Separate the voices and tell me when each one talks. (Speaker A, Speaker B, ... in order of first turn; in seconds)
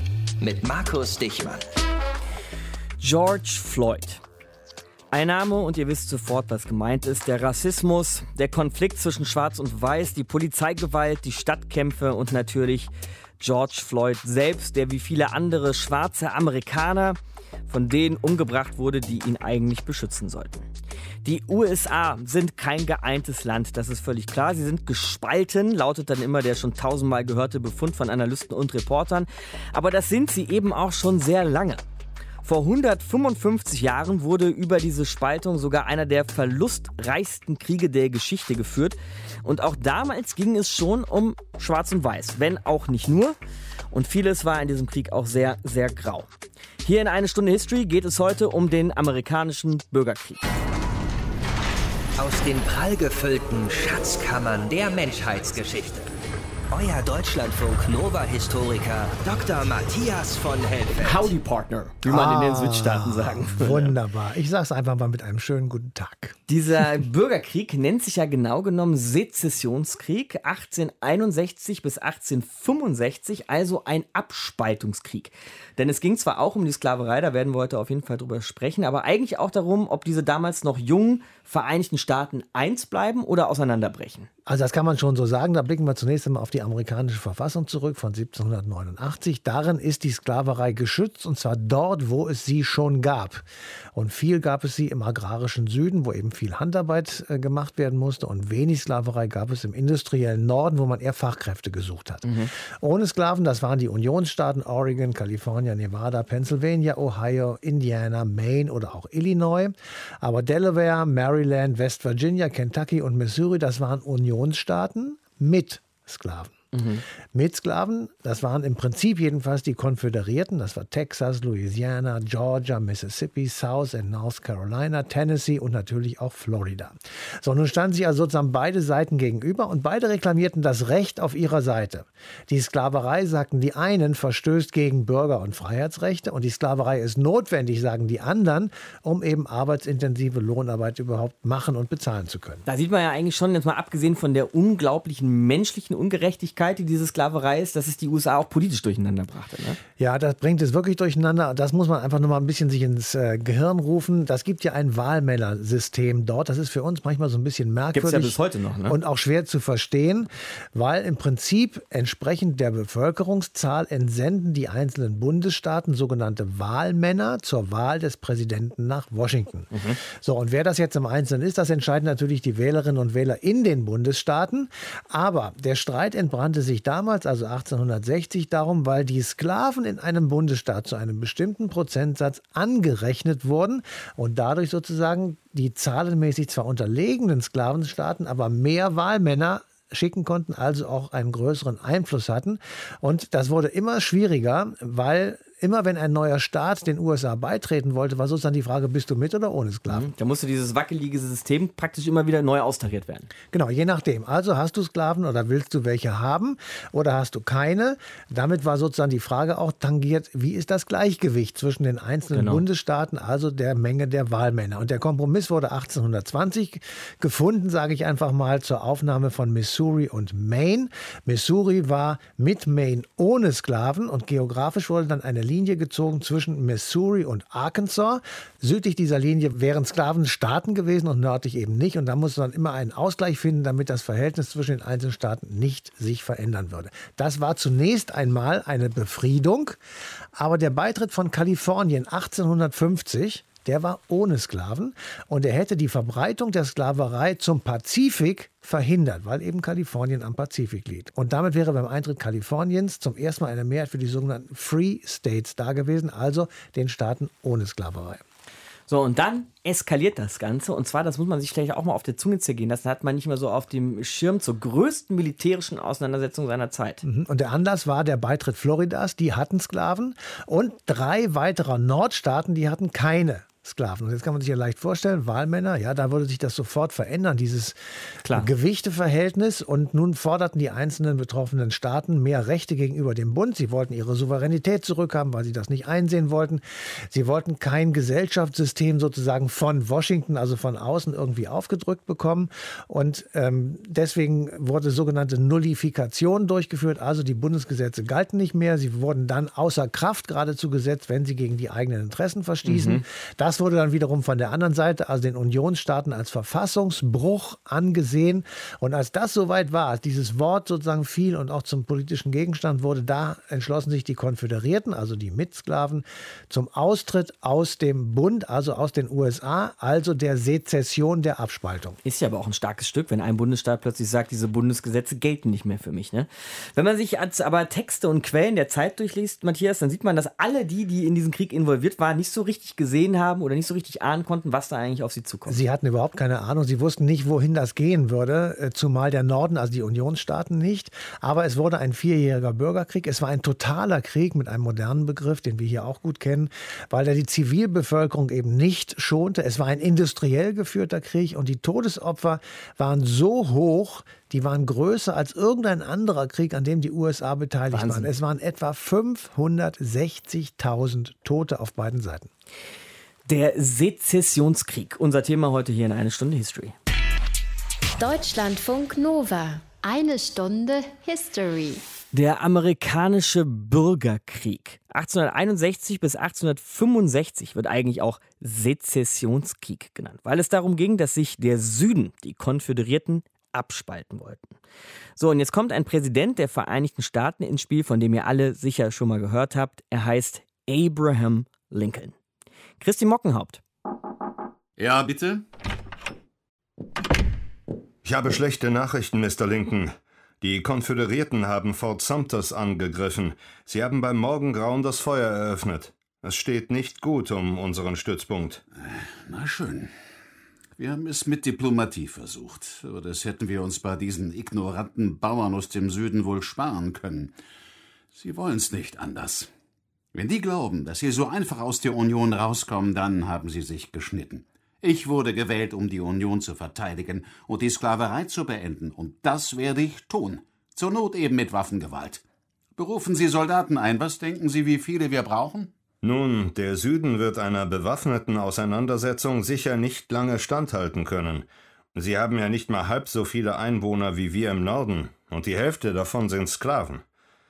Speaker A: 0.4-1.6, 52.2-56.1, 56.7-61.3
Speaker B: 3.0-4.2, 5.1-20.7, 21.2-31.8, 32.4-43.4, 43.9-46.3, 46.8-50.5, 61.0-63.9, 66.5-84.3, 102.2-102.5, 116.7-117.0, 142.7-149.8, 157.9-159.0, 169.7-170.0, 199.9-203.3, 212.3-212.6, 258.9-267.0, 302.6-303.0, 322.0-335.6, 357.7-358.1, 363.2-366.8, 372.1-384.6, 385.2-392.1, 392.8-393.6
Speaker C: 62.0-66.4, 84.5-116.6, 117.3-142.6, 150.0-200.1, 203.5-239.8, 240.3-258.2, 267.0-322.0, 335.5-362.3
Speaker D: 368.0-371.8
Speaker E: 394.8-395.4, 408.8-409.9, 410.8-417.4, 418.1-419.5, 420.1-432.2, 432.8-435.7
Speaker F: 398.0-408.6, 436.0-447.0